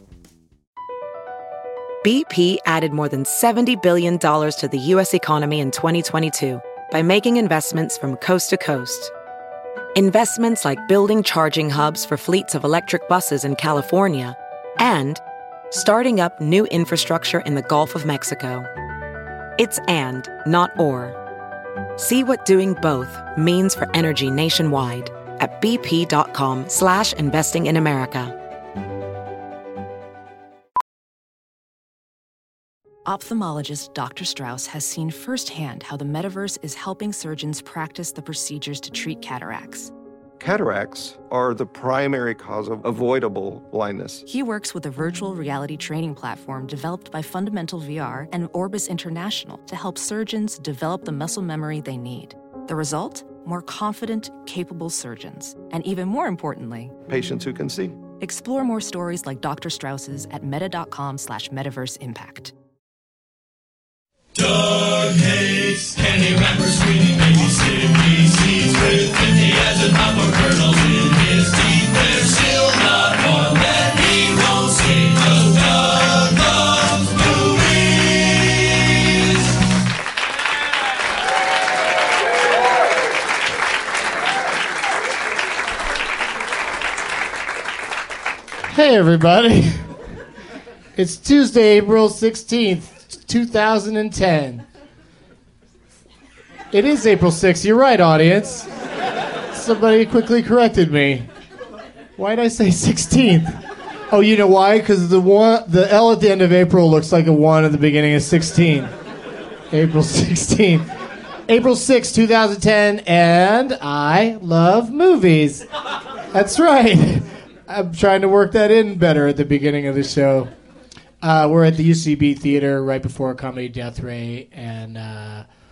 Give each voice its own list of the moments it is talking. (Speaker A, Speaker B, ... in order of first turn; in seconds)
Speaker A: 2.0-9.1, 9.9-18.7, 19.6-21.2, 22.0-28.3
Speaker B: 33.0-39.9, 44.3-57.0, 58.2-62.5
Speaker C: 40.4-44.2, 57.1-58.0
Speaker D: 66.1-70.5, 74.3-75.5, 76.8-77.1
Speaker E: 88.7-89.9, 91.0-94.6, 96.7-98.7, 99.5-101.3, 102.2-103.6, 104.1-108.9, 109.7-110.9, 111.5-115.6, 116.3-120.5, 121.2-125.4